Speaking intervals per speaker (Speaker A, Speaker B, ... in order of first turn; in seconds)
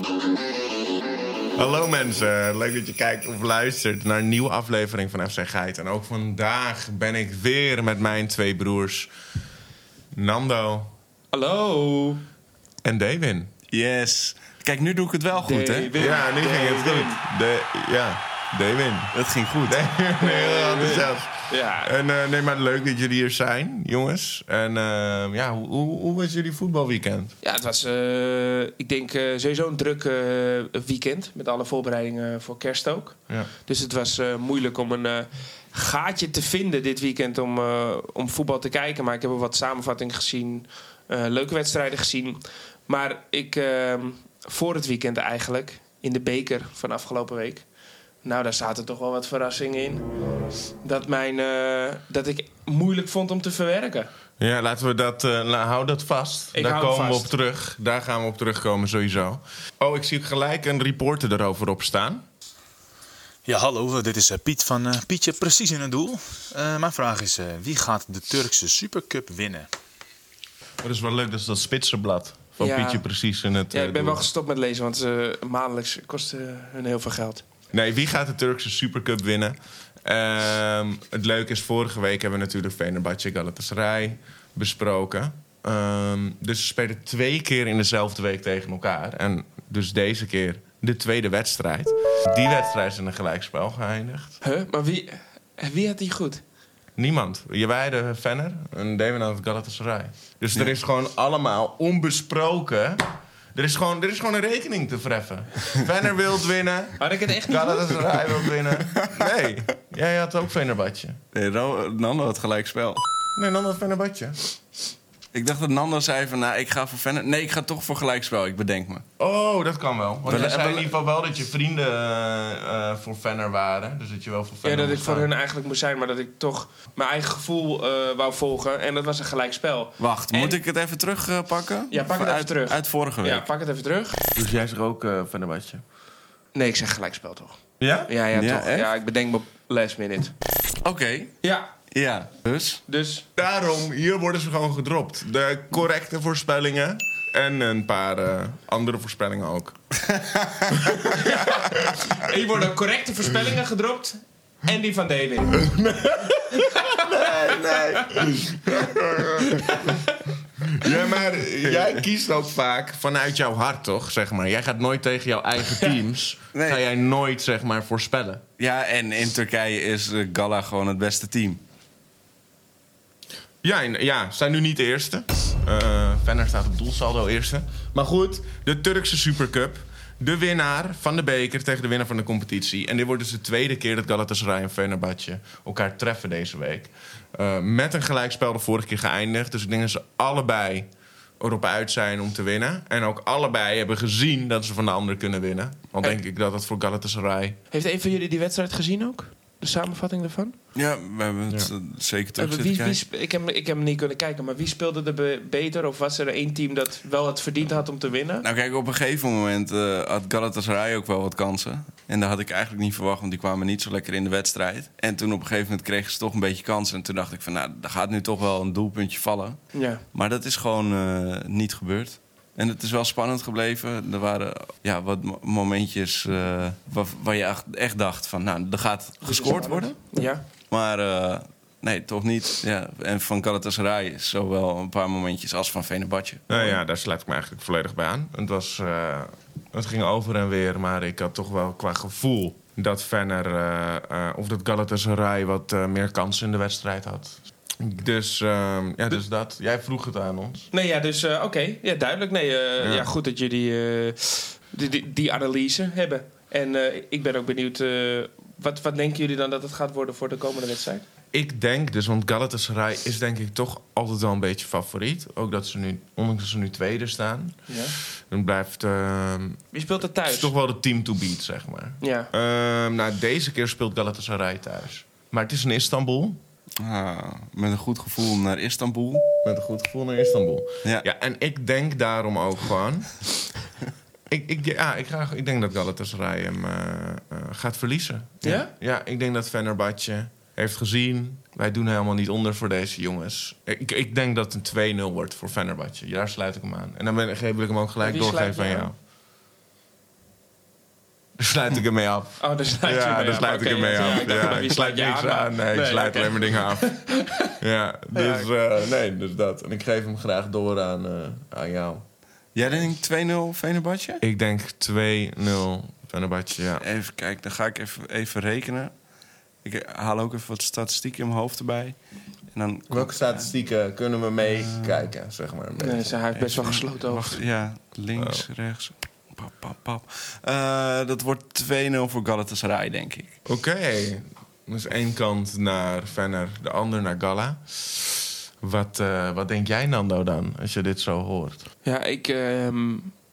Speaker A: 1.6-9.1, 10.1-10.9, 12.8-13.5, 16.0-19.1, 19.6-27.3, 54.4-62.2, 70.8-74.2, 77.7-94.4, 97.0-111.2, 113.3-114.4, 119.2-125.3, 134.3-135.8, 137.8-138.1, 143.4-149.8, 150.7-152.1, 155.6-160.0, 160.6-168.4, 173.6-190.9, 191.4-197.6, 236.5-250.7, 252.8-253.1, 261.3-267.6, 268.3-269.6, 270.2-276.4, 279.4-283.2, 284.3-298.9, 301.4-312.0, 314.2-316.8, 322.9-326.1, 328.2-328.4, 333.4-341.6
Speaker B: 11.3-12.2, 15.4-17.2, 20.2-21.9, 27.4-47.6, 48.2-50.0, 50.8-54.1, 56.5-57.3, 72.6-73.0, 73.7-77.4, 94.4-96.4, 107.0-108.4, 124.6-130.6, 131.9-134.2, 136.5-140.3, 141.4-141.7, 142.9-143.2, 151.2-155.7, 156.6-158.2, 159.5-160.1, 197.7-200.6, 202.4-208.4, 219.7-220.0, 229.2-230.4, 250.7-261.0, 267.7-267.9, 269.7-270.5, 272.0-272.3, 288.4-288.7, 298.0-298.9, 302.4-307.5, 308.1-308.5, 325.8-327.4, 341.8-343.1
Speaker C: 13.7-16.0, 19.1-19.8, 111.3-113.0, 115.3-119.0, 120.2-120.9, 130.0-133.4, 138.3-138.9, 140.8-141.3, 141.9-142.8, 150.2-150.8, 161.6-162.0, 166.5-166.8, 168.6-171.6, 200.7-203.0, 208.4-230.0, 230.7-236.5, 276.8-279.3, 312.5-314.2, 316.8-318.9, 319.6-322.0, 322.5-323.5, 324.6-325.0, 326.3-333.3
Speaker D: 63.5-69.7